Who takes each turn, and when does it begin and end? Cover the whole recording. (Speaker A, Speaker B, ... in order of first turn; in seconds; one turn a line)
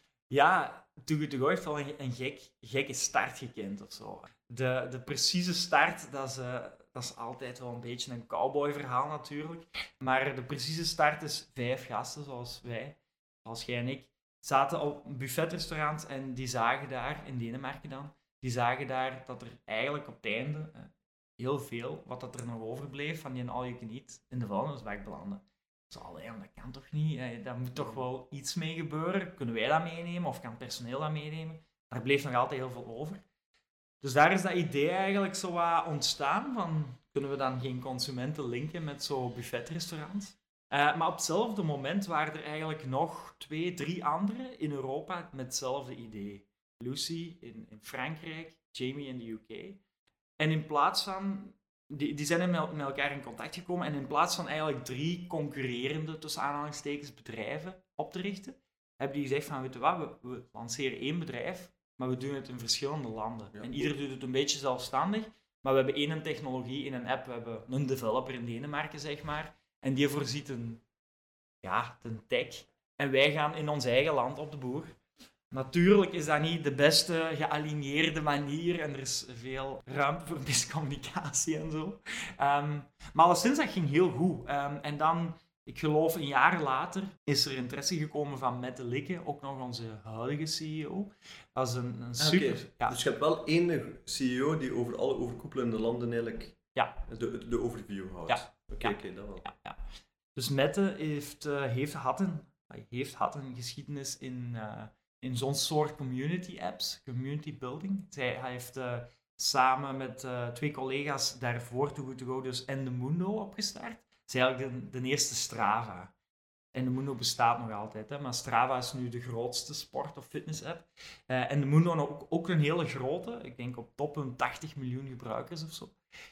Speaker A: 0.3-33.2
Speaker B: 27.8-28.0
Speaker A: 34.0-49.8
Speaker A: 50.4-70.8
Speaker B: 63.5-63.9
Speaker A: 71.6-75.0
Speaker A: 75.5-93.0
Speaker B: 92.2-99.5
Speaker A: 96.8-97.0
Speaker A: 98.3-99.8
Speaker A: 100.3-116.1
Speaker A: 116.7-125.9